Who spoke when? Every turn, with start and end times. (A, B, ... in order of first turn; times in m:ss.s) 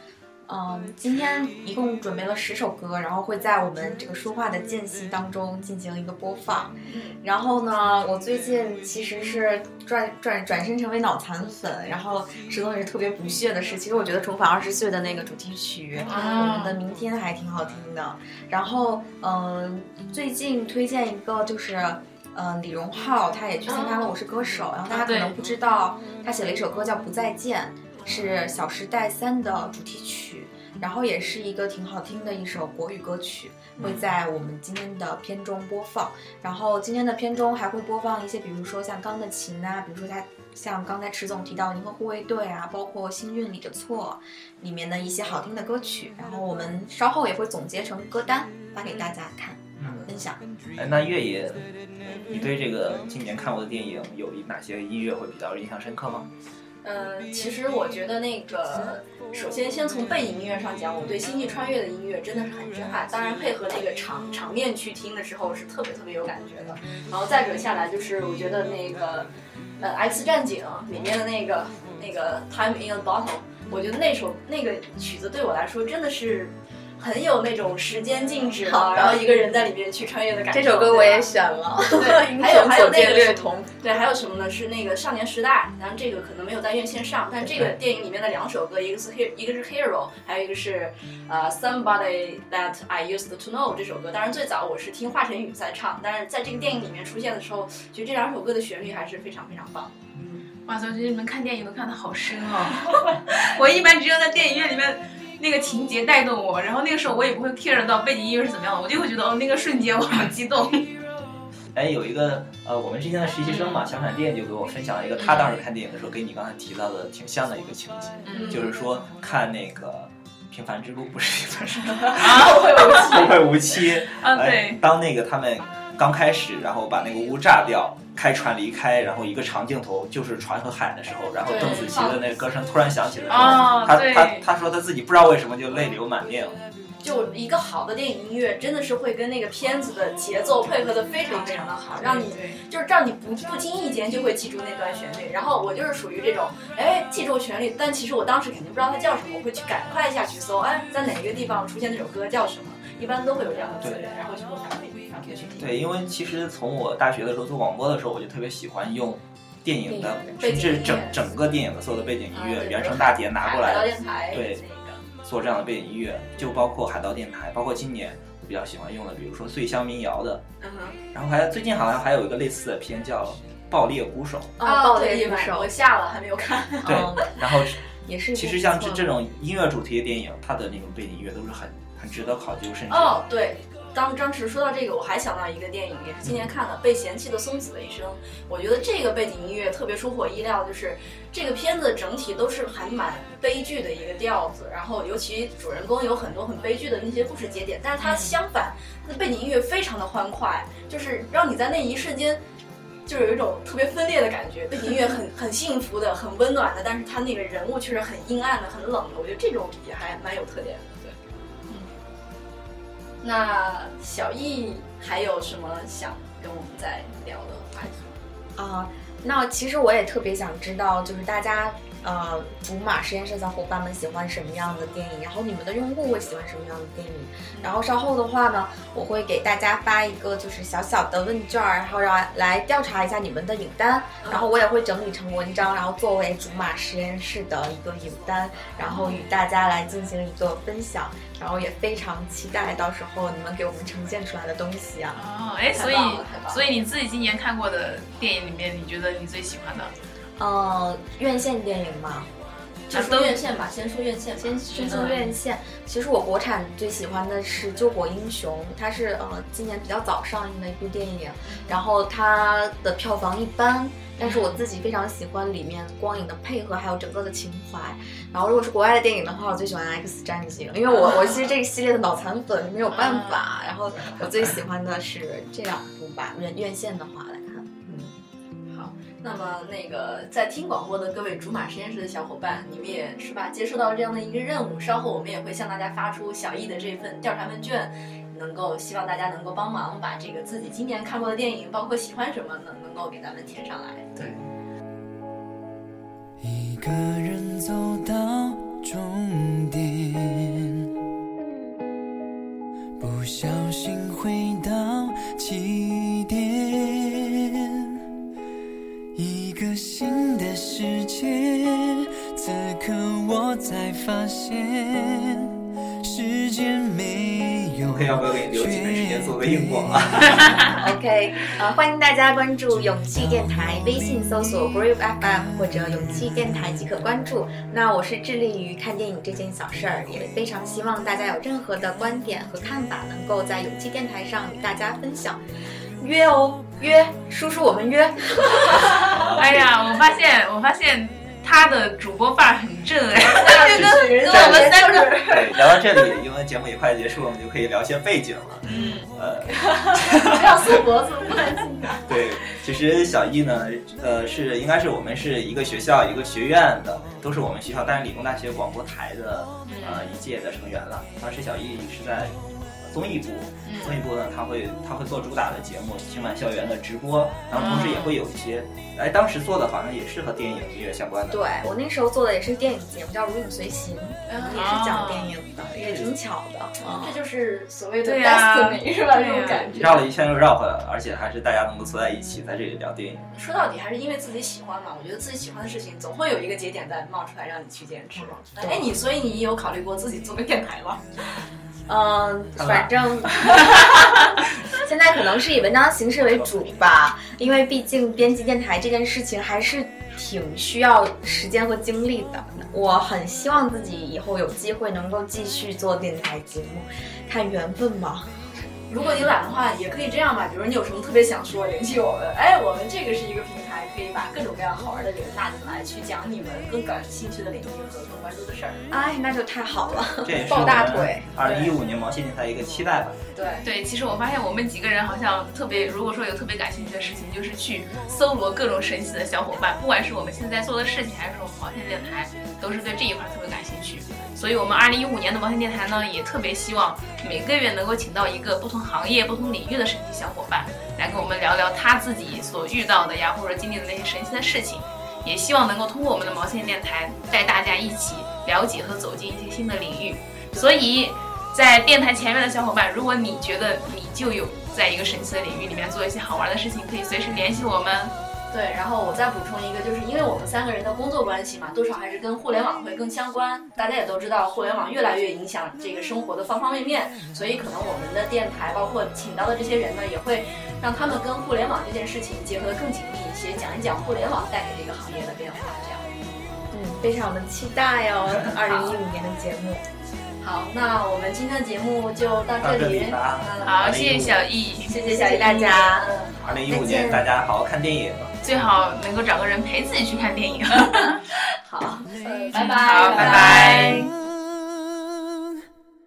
0:00.5-0:50.4 A
0:06.8-0:07.2 B
0:16.0-0:16.8 C
0:16.1-0:16.6 B
0:23.6-0:24.1 B
0:24.9-0:25.3 C
0:27.9-0:28.3 B
0:49.8-0:50.1 D
0:50.8-0:51.6 D
0:52.0-0:52.5 B
0:52.2-0:56.3 D
0:56.8-1:21.3 B
1:18.6-1:19.3 A
1:20.5-1:23.7 A
1:21.9-1:40.3 B
1:40.6-1:50.9 C
1:51.7-2:16.6 D
1:53.4-1:53.9 C
1:55.2-1:55.6 C
1:58.3-1:58.7 C
1:58.3-1:58.7 B
2:02.0-2:03.5 B
2:02.2-2:03.0 C
2:04.1-2:04.8 C
2:11.4-2:12.2 B
2:11.5-2:12.0 C
2:13.3-2:14.5 C
2:17.0-2:35.7 B
2:21.3-2:21.7 A
2:22.0-2:22.6 C
2:35.6-2:44.6 D
2:39.9-2:40.4 A
2:40.4-2:41.2 B
2:42.3-2:45.0 B
2:45.2-2:50.4 D
2:50.6-2:51.0 B
2:51.1-2:54.6 D
2:54.6-2:55.7 A
2:54.6-2:57.1 B
2:56.8-2:57.4 A
2:56.8-2:57.8 D
2:58.0-2:59.1 A
2:58.3-3:03.2 D
3:02.9-3:22.4 B
3:18.0-3:18.3 C
3:23.0-3:31.2 B
3:33.2-3:38.2 B
3:38.6-4:05.2 A
3:54.2-3:54.5 B
3:58.9-3:59.2 C
4:05.1-4:09.9 C
4:05.7-4:06.7 B
4:10.4-4:12.3 A
4:12.9-4:15.2 B
4:12.9-4:13.3 C
4:14.4-4:38.1 A
4:14.7-4:15.3 C
4:24.2-4:24.6 C
4:32.9-4:33.4 C
4:38.7-4:54.1 B
4:54.2-4:54.5 D
4:56.4-5:00.7 E
5:03.0-5:07.7 E
5:09.1-5:20.8 E
5:17.9-5:20.8 D
5:20.8-5:35.4 A
5:36.0-5:39.7 A
5:39.0-5:39.6 D
5:39.3-5:45.2 C
5:43.2-5:45.7 B
5:43.3-5:50.8 D
5:48.6-5:49.1 C
5:49.6-5:52.2 B
5:52.0-6:11.4 D
5:59.6-6:00.1 C
6:03.6-6:04.0 C
6:07.5-6:08.2 C
6:11.3-6:17.1 A
6:14.3-6:15.4 C
6:14.3-6:14.6 B
6:15.8-6:16.1 D
6:16.8-6:20.1 B
6:18.0-6:19.7 C
6:19.7-6:23.3 D
6:23.4-6:31.3 B
6:28.2-6:28.9 A
6:31.9-6:34.0 A
6:32.6-6:32.9 D
6:34.8-6:48.6 A
6:48.9-6:58.9 B
6:49.0-6:49.4 C
6:58.9-7:01.3 A
7:00.2-7:03.2 D
7:01.4-7:01.7 B
7:03.3-7:03.7 B
7:03.6-7:38.1 C
7:38.5-7:56.1 B
7:56.7-7:59.8 A
7:58.6-7:59.0 C
8:00.4-8:04.2 B
8:02.6-8:04.4 D
8:03.6-8:04.9 C
8:04.8-8:06.7 B
8:04.9-8:06.1 A
8:06.4-8:08.3 D
8:06.6-8:07.3 A
8:08.4-8:11.3 C
8:11.6-8:14.1 B
8:12.5-8:14.1 C
8:13.1-8:13.9 D
8:13.8-8:15.0 E